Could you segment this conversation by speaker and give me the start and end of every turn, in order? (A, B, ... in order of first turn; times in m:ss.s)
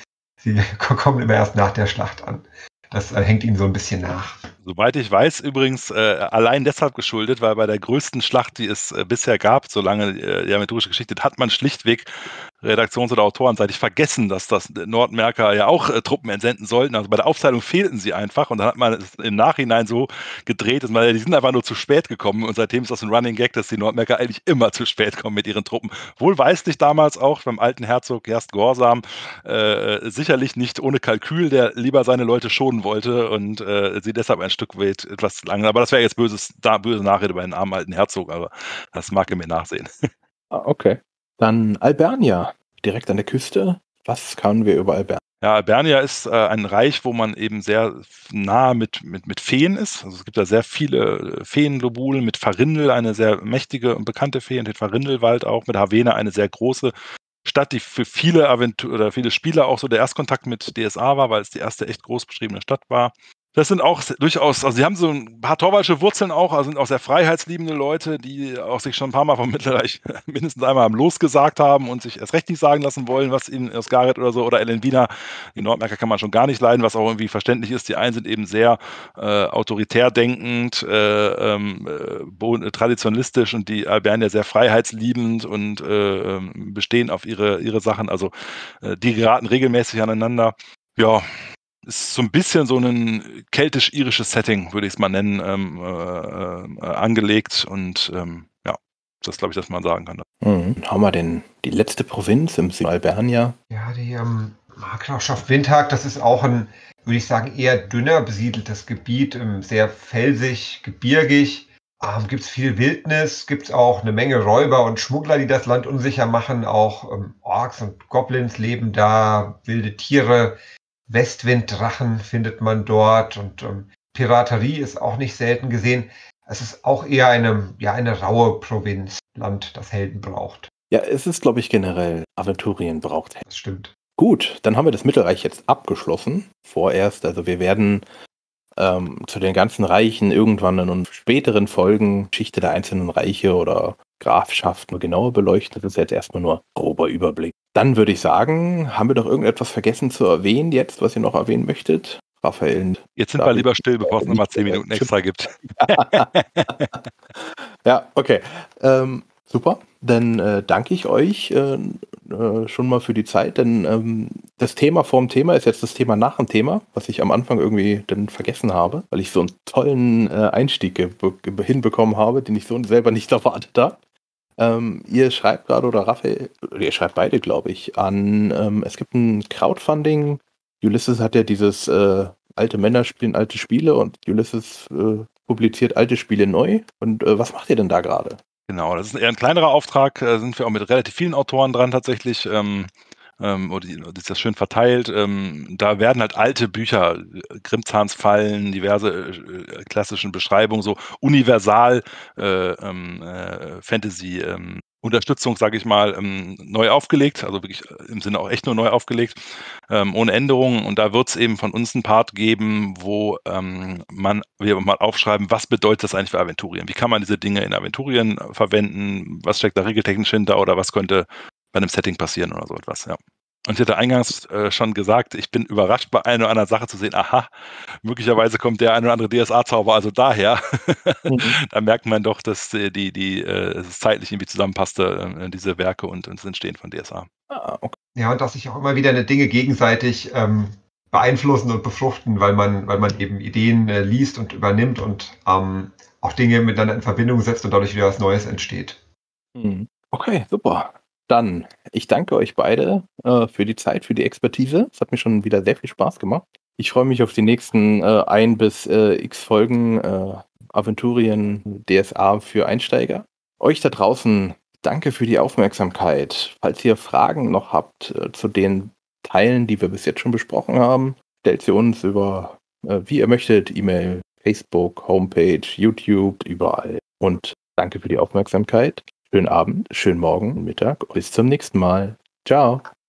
0:00.4-0:04.4 A
0:04.6-0:12.1 B
0:12.6-0:40.1 B
0:40.5-0:45.2 C
0:45.4-0:56.9 B
0:57.4-1:31.3 B
1:31.8-1:40.2 B
1:40.4-1:43.6 C
1:43.7-2:10.7 A
2:10.9-2:13.4 C
2:13.5-2:13.9 A
2:14.2-2:18.0 C
2:18.8-2:35.1 C
2:33.2-2:37.0 B
2:35.8-2:54.0 C
2:54.6-3:08.4 C
3:08.7-3:47.5 B
3:48.0-3:57.3 B
3:51.3-3:51.6 C
3:57.5-3:57.9 C
3:58.1-4:09.0 A
4:09.6-4:42.8 C